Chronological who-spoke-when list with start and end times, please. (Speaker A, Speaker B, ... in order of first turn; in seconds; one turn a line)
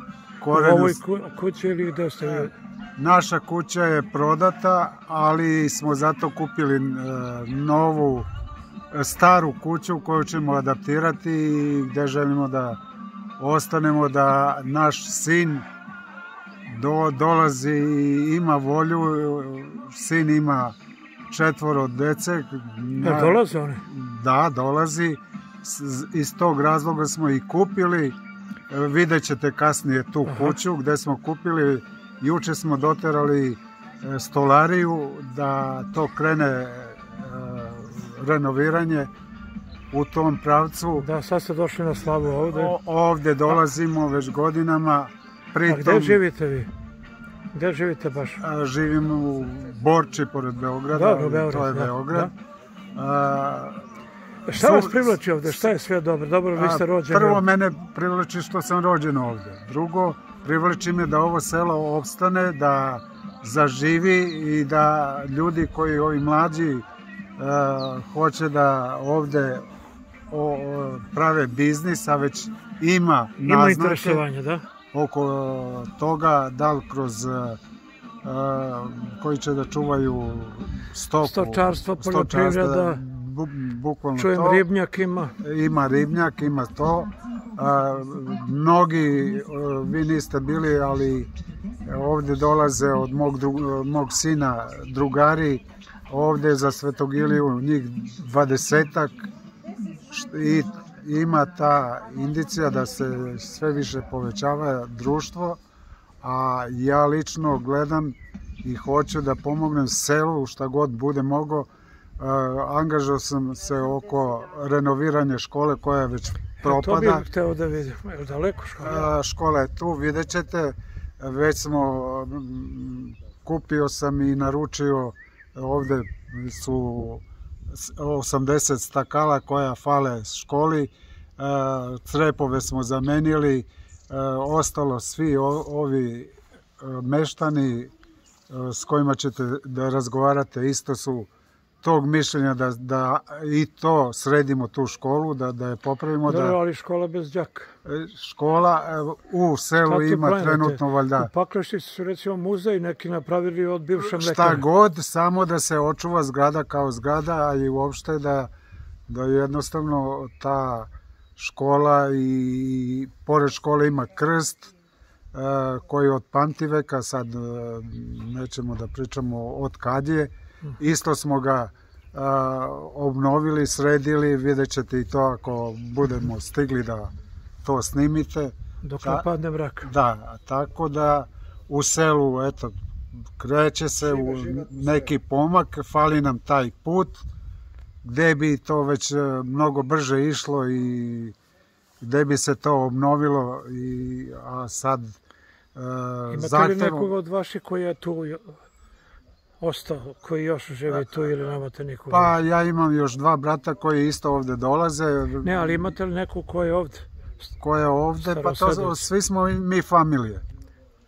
Speaker A: 0.4-1.0
Speaker B: 0.5-2.5
Speaker A: 2.2-8.3
Speaker A: 8.9-12.8
Speaker A: 13.4-15.7
Speaker A: 16.7-20.7
Speaker A: 21.3-28.2
Speaker B: 23.0-23.8
Speaker A: 28.7-39.1
Speaker B: 30.3-30.6
Speaker A: 39.9-41.1
Speaker B: 41.0-42.8
Speaker A: 42.5-46.2
Speaker B: 45.7-46.7
Speaker B: 47.5-48.4
Speaker A: 48.4-52.3
Speaker B: 50.9-52.3
Speaker A: 53.0-53.8
Speaker B: 54.5-57.4
Speaker A: 54.6-55.1
Speaker A: 56.6-66.8
Speaker A: 67.4-69.7
Speaker A: 70.3-74.2
Speaker B: 73.4-74.7
Speaker A: 74.9-77.6
Speaker A: 78.2-84.6
Speaker B: 81.2-83.0
Speaker B: 84.2-85.4
Speaker A: 85.4-91.3
Speaker A: 91.9-99.3
Speaker A: 100.1-105.6
Speaker A: 106.2-111.7
Speaker A: 112.2-117.2
Speaker B: 116.6-119.1
Speaker A: 118.8-137.9
Speaker A: 138.5-141.3
Speaker A: 141.8-146.6
Speaker B: 146.2-147.7
Speaker A: 147.8-151.3
Speaker B: 149.8-154.6
Speaker A: 154.0-158.5
Speaker A: 159.1-164.7
Speaker A: 165.3-177.1
Speaker A: 177.6-179.2
Speaker B: 178.8-179.9
Speaker A: 179.8-182.7
Speaker A: 183.4-187.2
Speaker A: 188.0-191.3
Speaker A: 192.0-195.2
Speaker A: 195.8-197.1
Speaker B: 196.3-198.6
Speaker B: 199.6-202.3
Speaker A: 200.9-201.2
Speaker A: 202.1-205.9
Speaker B: 205.4-207.1
Speaker A: 207.6-210.4
Speaker B: 208.2-209.1